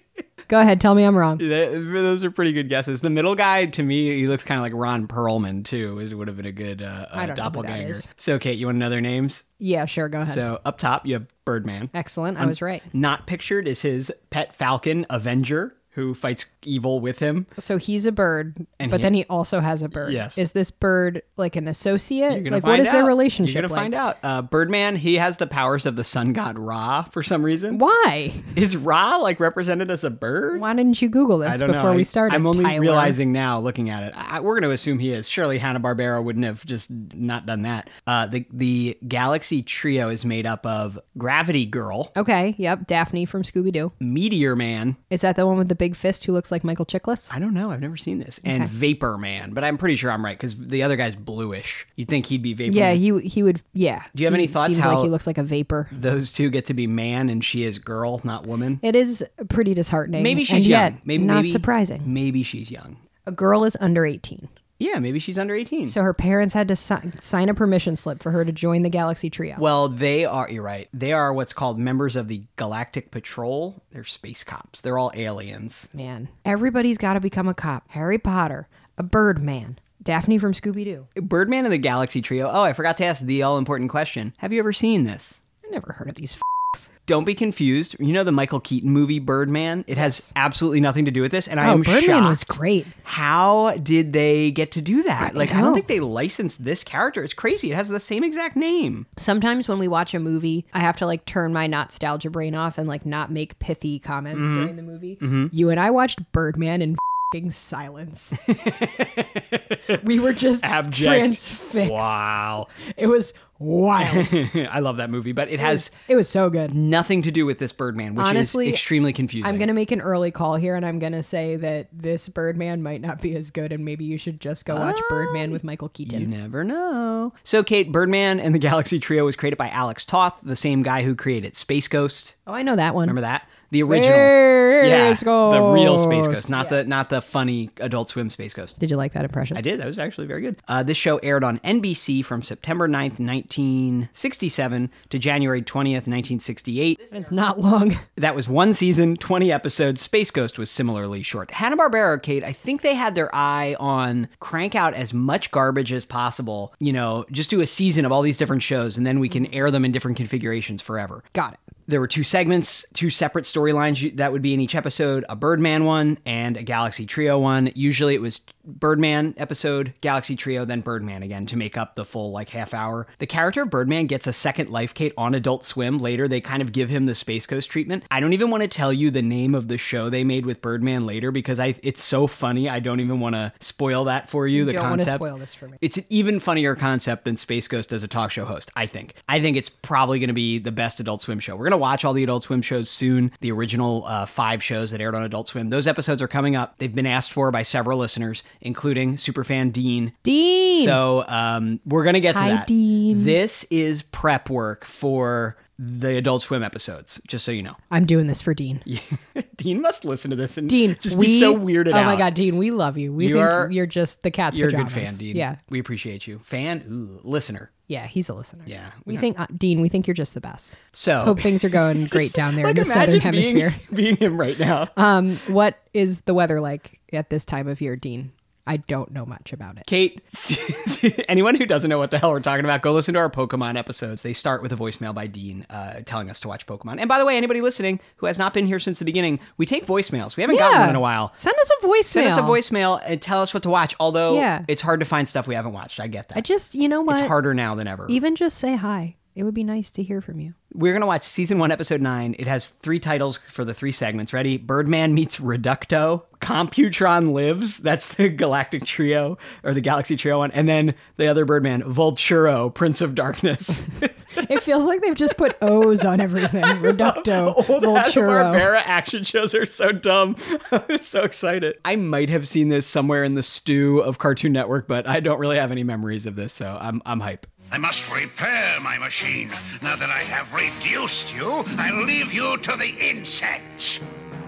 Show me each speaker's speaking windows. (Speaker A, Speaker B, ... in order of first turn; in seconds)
Speaker A: 0.5-1.4, 7.1-8.1, 9.6-10.5, 11.9-12.9, 17.6-23.9, 27.7-28.5, 30.5-33.2, 42.2-43.9, 45.1-47.3, 48.4-48.7, 52.7-55.9, 58.8-62.1, 63.2-64.5, 65.9-69.6, 75.9-81.1, 85.7-86.9, 90.0-90.3, 91.6-92.9, 95.2-95.8, 99.2-108.4, 109.9-114.3, 115.6-116.7, 118.2-118.8, 119.4-126.3, 132.5-133.2, 133.8-136.8, 138.8-139.6, 147.1-148.0, 161.3-161.6, 184.5-185.8, 200.2-201.0, 202.3-203.4, 207.9-208.8, 210.7-215.6, 217.9-223.8, 224.9-229.9, 240.5-242.6, 244.3-244.7, 246.3-247.3, 248.1-250.6, 264.4-268.7
Speaker B: 1.4-9.4, 10.2-17.5, 18.8-19.1, 19.9-20.4, 22.3-27.8, 28.5-30.6, 31.4-42.1, 44.0-45.0, 47.3-53.0, 54.1-55.1, 55.9-58.8, 60.2-63.0, 64.8-66.0, 69.6-75.9, 81.2-85.4, 87.1-99.1, 104.3-105.5, 108.4-110.0, 110.6-112.7, 114.0-115.9, 116.7-119.7, 124.7-132.3, 133.0-138.8, 139.5-147.3, 148.2-161.3, 161.9-185.3, 185.8-200.2, 200.7-207.8, 208.9-212.3, 213.2-213.7, 214.5-217.7, 218.7-219.2, 220.9-224.9, 229.9-241.3, 242.1-246.4, 247.1-248.2, 250.7-264.2, 266.4-277.5
Speaker C: 277.7-284.0